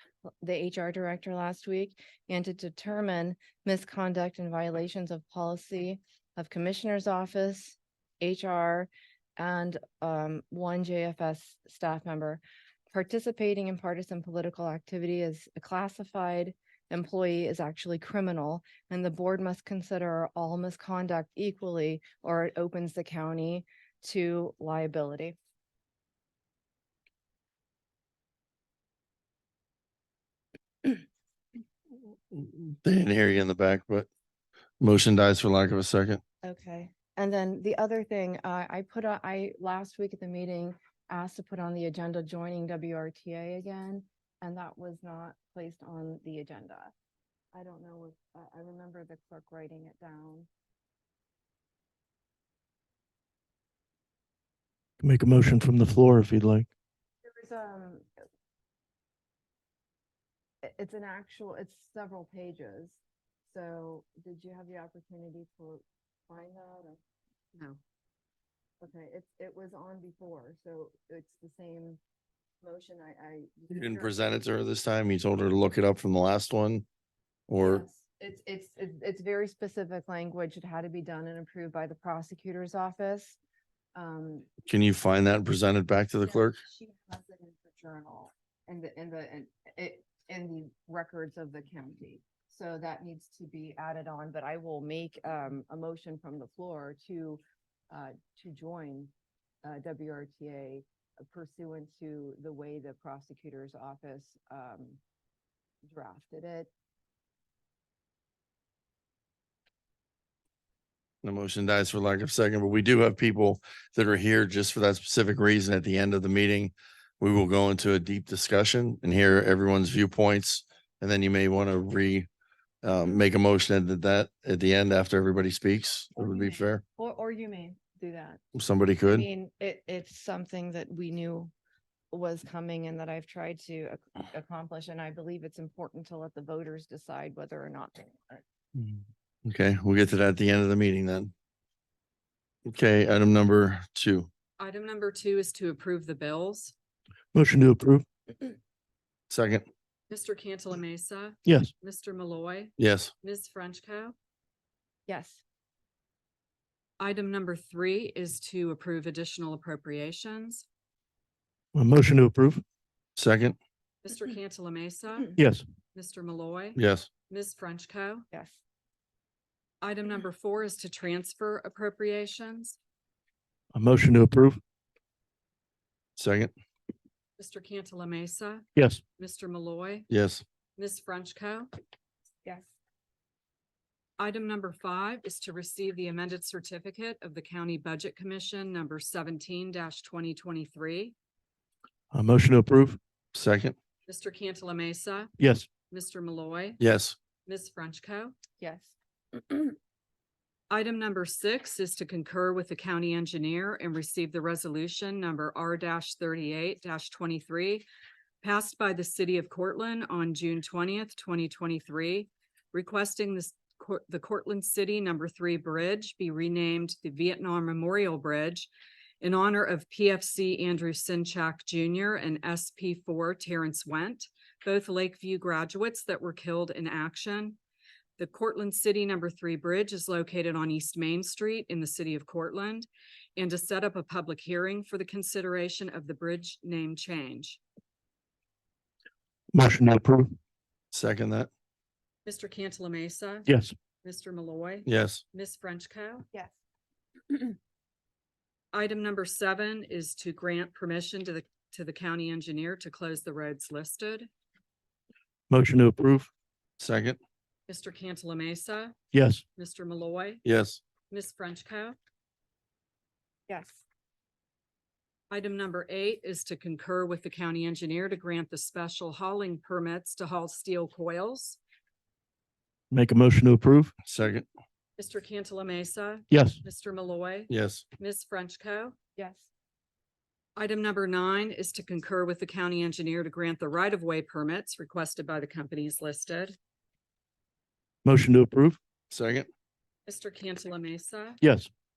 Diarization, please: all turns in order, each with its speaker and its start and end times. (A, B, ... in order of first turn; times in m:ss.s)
0:00.4-0:25.4 A
0:32.3-0:34.1 B
0:34.8-0:36.2 B
0:36.4-0:46.9 A
0:47.5-0:50.5 A
0:55.0-0:56.7 C
0:57.2-0:58.1 A
1:00.6-1:03.0 A
1:03.5-1:07.0 A
1:08.8-1:12.0 A
1:12.6-1:14.3 A
1:13.7-1:16.8 B
1:17.5-1:17.8 B
1:17.6-1:23.4 A
1:23.9-1:24.5 A
1:24.7-1:26.6 B
1:26.2-1:37.4 A
1:37.9-1:39.1 A
1:39.6-1:45.0 A
1:45.8-1:46.7 A
1:51.2-2:02.3 B
2:02.8-2:06.8 B
2:06.2-2:08.4 A
2:08.5-2:09.3 B
2:09.0-2:11.5 A
2:12.1-2:18.4 A
2:18.7-2:21.3 B
2:22.6-2:24.3 B
2:24.6-2:26.7 D
2:27.3-2:28.0 C
2:29.3-2:29.6 B
2:30.1-2:34.1 D
2:31.4-2:31.7 C
2:32.8-2:33.1 B
2:35.1-2:35.4 A
2:37.0-2:40.6 D
2:41.7-2:42.6 C
2:43.2-2:43.6 B
2:44.0-2:45.4 D
2:45.4-2:45.6 C
2:45.9-2:48.2 D
2:46.8-2:47.1 B
2:48.3-2:48.6 A
2:49.8-2:52.8 D
2:53.7-2:54.6 C
2:56.2-2:56.5 B
2:57.4-2:58.6 D
2:58.8-2:59.0 C
2:59.2-3:00.1 D
3:00.1-3:00.4 B
3:00.8-3:01.7 D
3:02.4-3:02.7 A
3:04.2-3:11.1 D
3:12.1-3:13.0 C
3:13.3-3:13.7 B
3:14.1-3:15.3 D
3:15.4-3:15.7 C
3:15.9-3:16.8 D
3:16.8-3:17.2 B
3:17.4-3:18.3 D
3:18.6-3:18.9 A
3:20.7-3:27.8 D
3:28.4-3:38.7 D
3:39.2-3:47.6 D
3:48.2-3:57.6 D
3:59.5-4:00.3 C
4:00.9-4:01.5 B
4:02.2-4:03.5 D
4:03.5-4:03.7 C
4:04.0-4:06.2 D
4:04.8-4:05.2 B
4:08.7-4:14.3 D
4:15.5-4:16.3 C
4:16.8-4:17.2 B
4:17.7-4:19.0 D
4:19.1-4:19.4 C
4:19.6-4:20.4 D
4:20.4-4:20.8 B
4:21.1-4:22.0 D
4:23.5-4:23.8 A
4:25.3-4:31.6 D
4:32.9-4:33.9 C
4:34.0-4:34.4 B
4:35.0-4:39.0 D
4:36.3-4:36.6 C
4:37.5-4:37.8 B
4:39.2-4:39.5 A
4:40.6-4:46.6 D
4:48.0-4:48.8 C
4:49.1-4:49.5 B
4:50.1-4:51.4 D
4:51.4-4:51.7 C